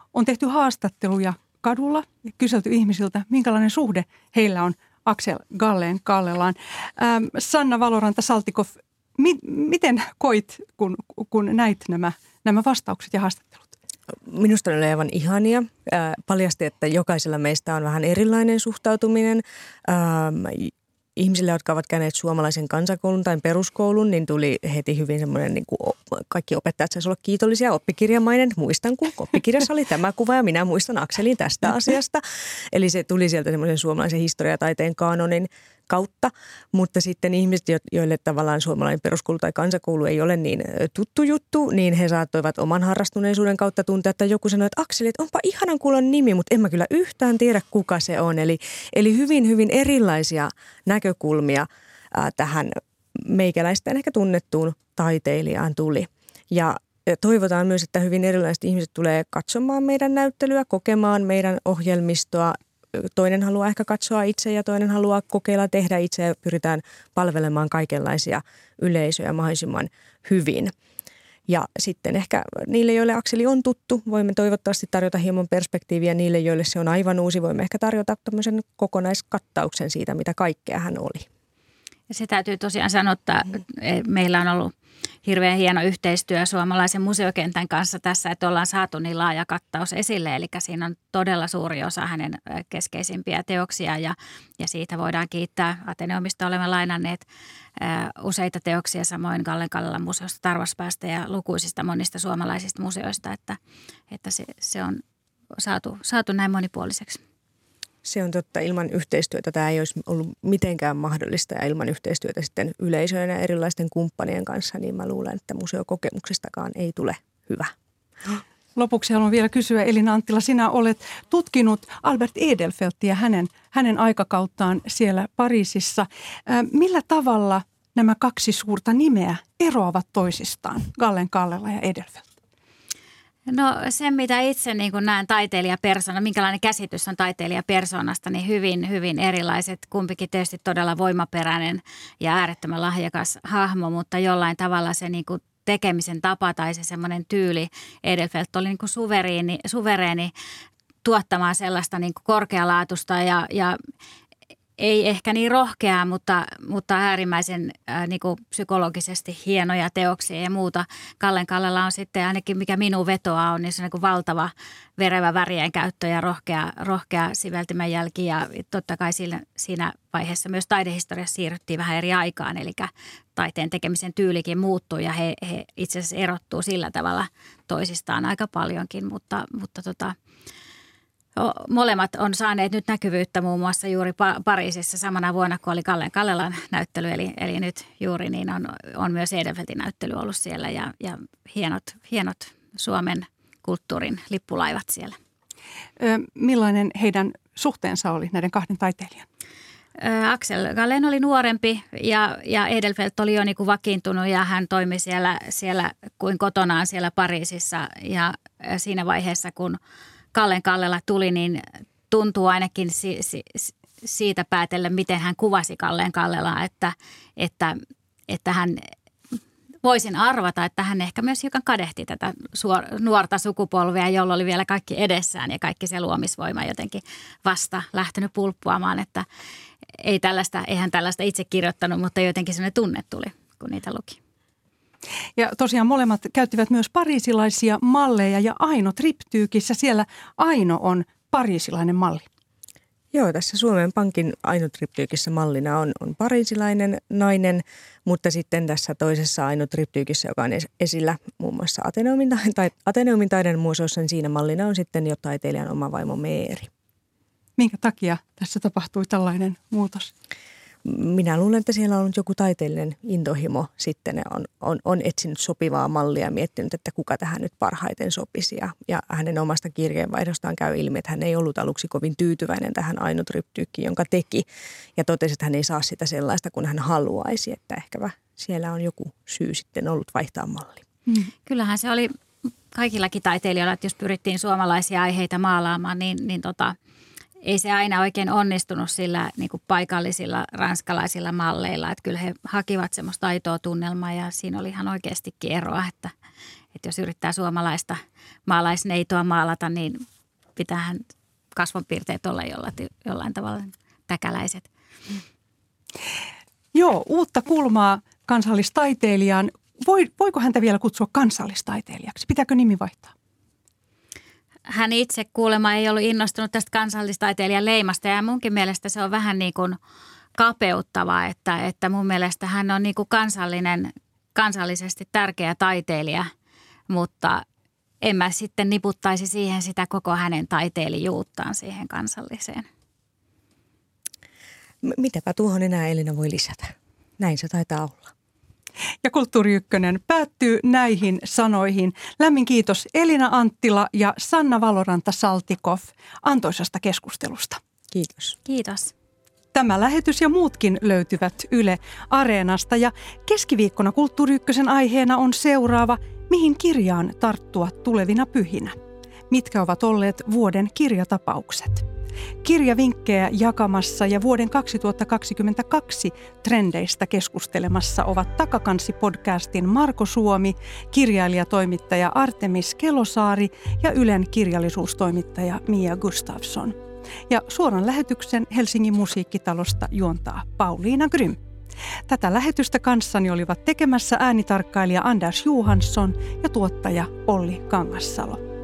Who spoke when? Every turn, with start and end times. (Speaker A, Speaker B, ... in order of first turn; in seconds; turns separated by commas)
Speaker A: 0.1-13.7, Speaker B: 14.2-70.7, Speaker B: 71.5-81.3, Speaker C: 82.1-84.7, Speaker C: 85.2-97.2, Speaker C: 97.8-103.6, Speaker C: 104.1-105.0, Speaker C: 105.5-107.2, Speaker B: 108.0-117.7, Speaker A: 118.8-132.3, Speaker C: 133.5-150.3, Speaker C: 151.0-153.8, Speaker C: 154.8-180.2, Speaker C: 181.4-195.2, Speaker A: 196.0-199.3, Speaker C: 200.0-209.8, Speaker C: 210.3-217.8, Speaker C: 218.3-218.9, Speaker C: 219.8-229.3, Speaker C: 230.0-234.2, Speaker A: 235.4-242.3, Speaker B: 243.1-256.7, Speaker A: 257.6-260.1, Speaker B: 260.9-280.8, Speaker C: 281.5-282.1, Speaker C: 282.7-286.8, Speaker C: 287.4-296.1, Speaker C: 296.8-300.0, Speaker C: 300.6-304.7, Speaker A: 306.7-313.1, Speaker C: 314.7-319.8, Speaker C: 320.4-326.3, Speaker C: 326.9-327.4, Speaker C: 328.0-332.7, Speaker B: 334.8-338.1, Speaker A: 339.0-347.6, Speaker B: 347.9-348.4, Speaker C: 348.5-348.9, Speaker A: 349.5-358.8, Speaker A: 359.3-361.9, Speaker A: 362.4-376.8, Speaker A: 377.3-381.4, Speaker A: 382.1-388.4